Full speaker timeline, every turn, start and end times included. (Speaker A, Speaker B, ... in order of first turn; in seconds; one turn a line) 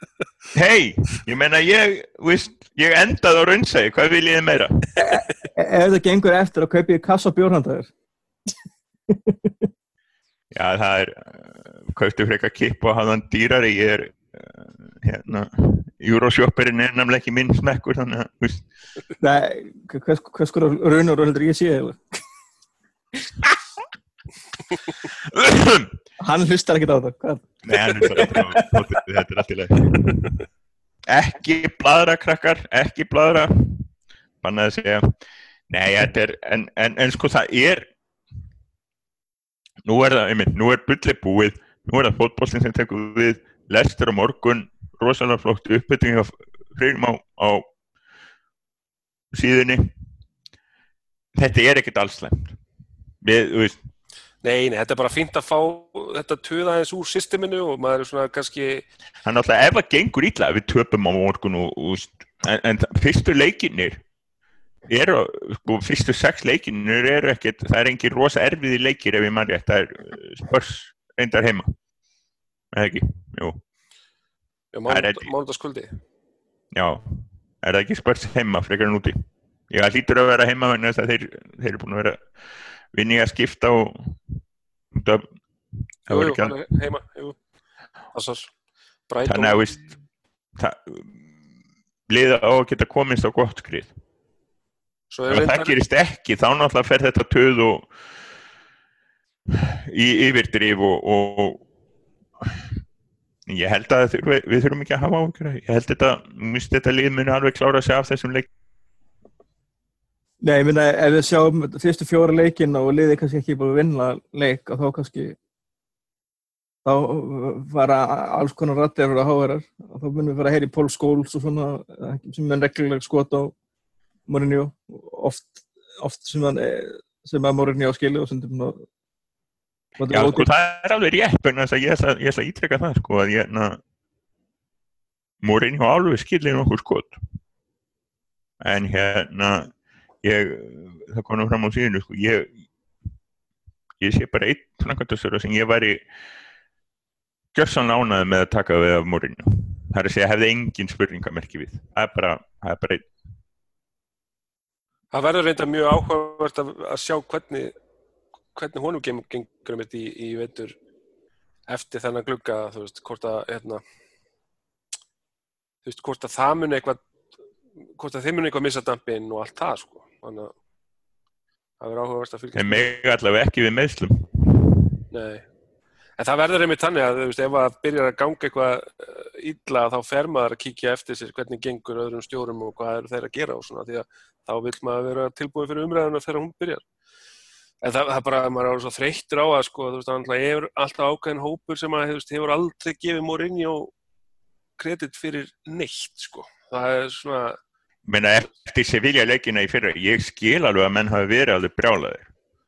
Speaker A: 0.5-5.0
Speaker B: 5.0-7.9
Speaker B: 9.1-9.7
Speaker A: 10.5-18.6
Speaker B: 19.2-22.0
Speaker A: 25.1-25.9
Speaker B: 26.2-28.8
Speaker A: 27.6-30.3
Speaker A: 31.1-35.0
Speaker A: 35.7-37.9
Speaker A: 39.8-47.7
Speaker A: 49.3-49.9
Speaker A: 51.3-52.6
Speaker A: 53.2-53.8
Speaker C: 54.4-58.9
Speaker A: 59.2-64.0
Speaker A: 64.9-71.7
Speaker A: 72.7-73.6
Speaker C: 74.7-76.0
Speaker A: 74.9-75.3
Speaker A: 76.7-79.2
Speaker A: 79.7-82.2
Speaker A: 82.9-84.2
Speaker A: 84.9-85.2
Speaker A: 86.1-86.7
Speaker C: 86.1-87.4
Speaker C: 88.1-88.5
Speaker C: 89.1-89.7
Speaker A: 89.2-89.8
Speaker A: 90.6-91.2
Speaker A: 92.1-93.9
Speaker C: 95.1-95.7
Speaker A: 95.3-97.9
Speaker A: 99.5-101.6
Speaker A: 102.4-102.7
Speaker A: 103.5-108.5
Speaker B: 110.4-115.3
Speaker B: 116.8-123.5
Speaker B: 124.3-128.8
Speaker B: 130.0-130.5
Speaker A: 130.1-133.8
Speaker A: 135.4-137.2
Speaker A: 138.6-139.7
Speaker A: 140.2-142.5
Speaker A: 144.0-146.0
Speaker A: 147.5-153.1
Speaker C: 155.1-157.7
Speaker C: 158.5-160.8
Speaker C: 161.7-163.8
Speaker C: 165.8-167.0
Speaker C: 167.9-170.5
Speaker C: 171.8-172.9
Speaker A: 172.6-174.7
Speaker C: 175.1-175.4
Speaker C: 176.2-186.8
Speaker C: 187.8-193.9
Speaker C: 194.8-197.6
Speaker A: 198.1-202.3